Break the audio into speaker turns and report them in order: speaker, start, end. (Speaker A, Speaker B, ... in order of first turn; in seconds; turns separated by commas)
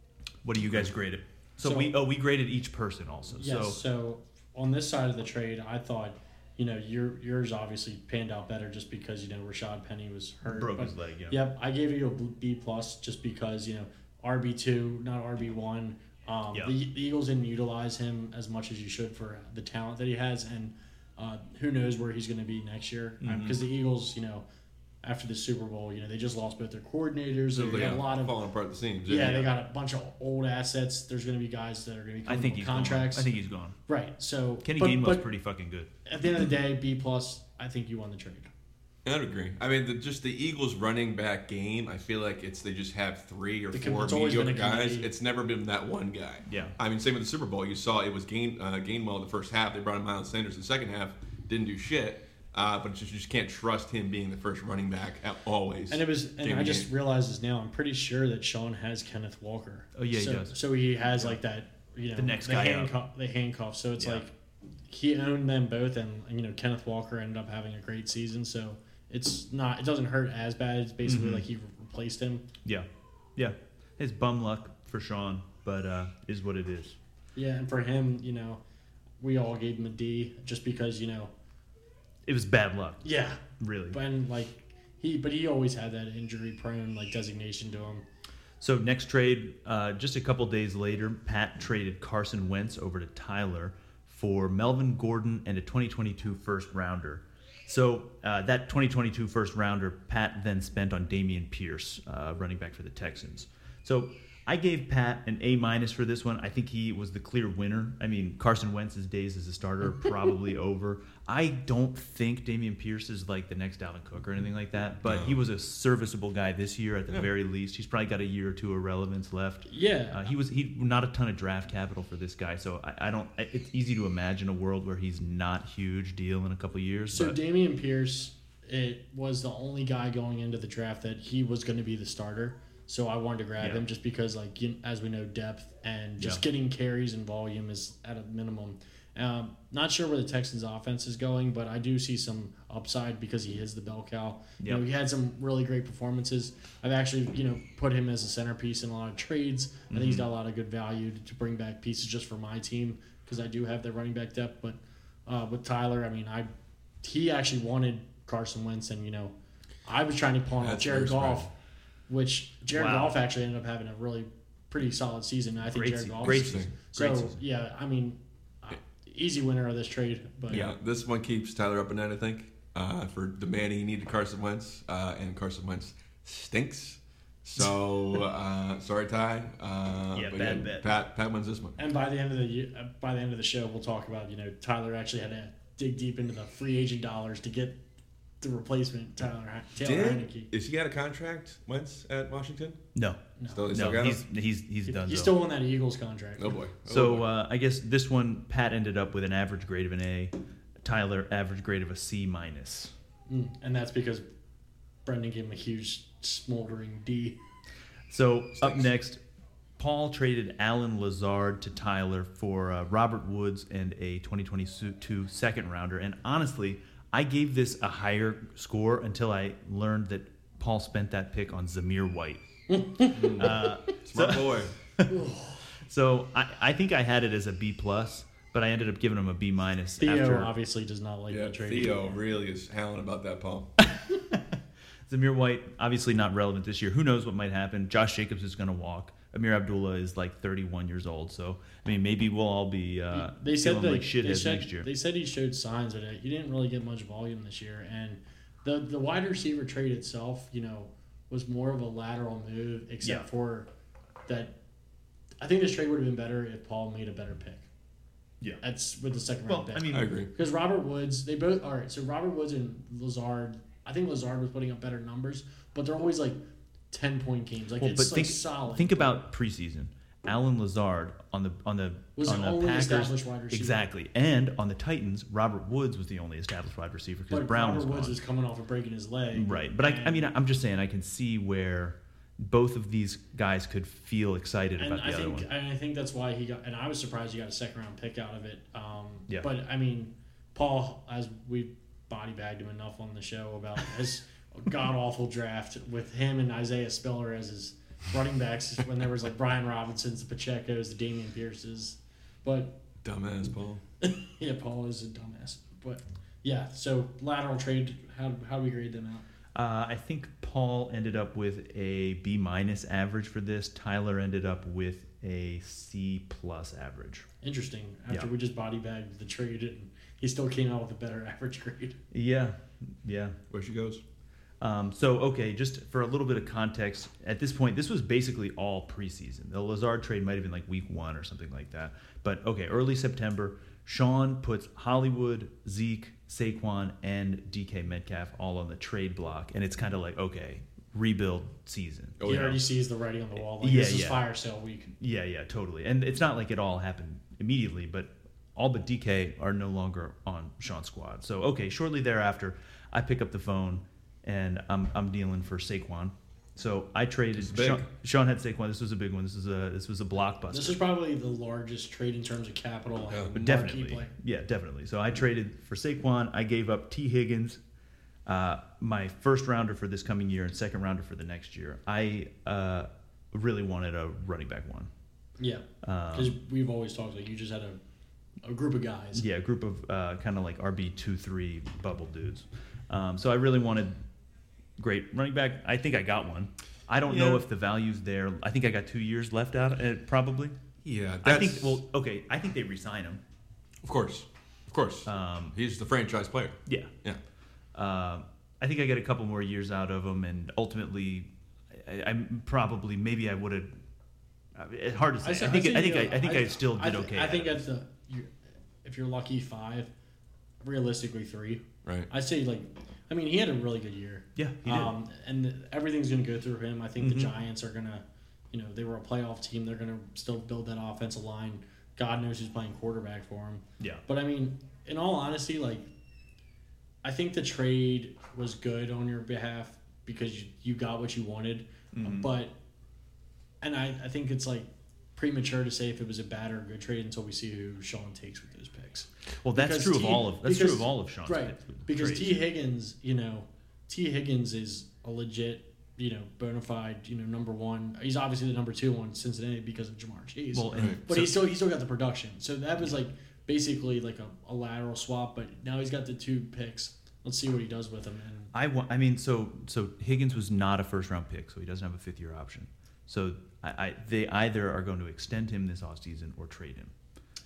Speaker A: 0.4-3.8, Speaker B: 1.6-1.9, Speaker B: 3.4-24.4, Speaker A: 10.5-11.4, Speaker A: 23.2-23.6, Speaker B: 25.0-28.4, Speaker C: 27.5-29.5, Speaker B: 29.1-33.3, Speaker A: 32.3-33.8, Speaker B: 33.9-35.2, Speaker A: 34.6-35.9, Speaker B: 36.1-38.5, Speaker C: 39.0-56.9, Speaker B: 43.7-45.1, Speaker A: 46.5-46.8, Speaker B: 55.9-64.3, Speaker A: 60.0-60.6, Speaker A: 61.1-61.4, Speaker A: 62.2-62.9, Speaker B: 64.9-72.5, Speaker A: 71.0-71.5, Speaker A: 72.7-77.0, Speaker B: 77.4-78.6, Speaker B: 79.2-81.3, Speaker A: 82.3-83.0, Speaker B: 83.0-83.4, Speaker A: 83.6-84.0, Speaker B: 83.9-88.0, Speaker A: 88.6-127.4, Speaker C: 115.0-115.4, Speaker B: 119.7-120.2, Speaker B: 127.1-156.5, Speaker A: 149.9-150.3, Speaker B: 157.0-159.3, Speaker B: 159.9-161.5, Speaker C: 160.6-161.5, Speaker B: 162.1-170.6, Speaker A: 162.7-163.2, Speaker A: 165.7-167.4, Speaker C: 166.2-166.7, Speaker C: 170.5-181.8, Speaker A: 180.1-180.9, Speaker B: 181.8-187.8, Speaker B: 188.4-190.5, Speaker C: 189.8-192.8, Speaker A: 192.9-195.3, Speaker B: 193.4-193.6, Speaker C: 193.5-194.2, Speaker B: 194.9-196.6, Speaker C: 196.4-197.3, Speaker A: 196.9-202.9, Speaker B: 203.3-204.3, Speaker B: 205.1-207.4, Speaker A: 208.1-209.2, Speaker C: 208.6-208.9, Speaker A: 209.8-222.5, Speaker B: 222.7-223.6, Speaker A: 223.0-225.1, Speaker C: 223.1-224.7, Speaker B: 225.1-225.6, Speaker A: 225.8-230.5, Speaker B: 230.0-232.2, Speaker C: 231.3-233.7, Speaker A: 233.8-234.5, Speaker A: 235.1-244.9, Speaker B: 243.1-253.7, Speaker B: 254.3-254.6, Speaker B: 255.4-257.7, Speaker B: 258.6-266.4, Speaker A: 259.5-260.1, Speaker C: 259.9-260.3, Speaker B: 266.9-269.2, Speaker A: 267.8-278.2, Speaker B: 272.2-273.8, Speaker B: 277.3-280.2, Speaker A: 279.3-285.5, Speaker B: 284.8-302.8, Speaker C: 303.0-303.8, Speaker B: 304.0-309.3, Speaker A: 309.6-317.3, Speaker B: 317.4-322.0, Speaker A: 322.1-323.4, Speaker C: 323.5-324.0, Speaker A: 324.6-342.6, Speaker C: 342.2-342.6, Speaker B: 342.2-344.9, Speaker A: 343.6-344.3, Speaker A: 345.0-360.8, Speaker C: 357.4-357.9, Speaker B: 360.5-364.1, Speaker A: 363.4-367.6, Speaker A: 368.3-374.9, Speaker B: 375.4-377.8, Speaker A: 375.8-376.4, Speaker B: 378.4-379.2, Speaker A: 379.1-384.0, Speaker A: 384.8-390.6, Speaker C: 387.1-387.4, Speaker C: 390.9-391.8, Speaker A: 391.2-393.2, Speaker C: 393.8-397.2, Speaker A: 395.1-395.6, Speaker A: 396.7-396.9, Speaker A: 397.7-403.7, Speaker A: 404.6-407.6, Speaker B: 405.2-408.3, Speaker B: 408.8-409.9, Speaker B: 410.6-425.9, Speaker C: 411.8-412.1, Speaker A: 414.4-414.9, Speaker A: 417.0-417.3, Speaker B: 427.0-432.6, Speaker A: 431.9-432.3, Speaker B: 433.6-458.5, Speaker A: 439.4-442.4, Speaker A: 450.5-451.4, Speaker C: 450.7-451.0, Speaker A: 458.5-466.9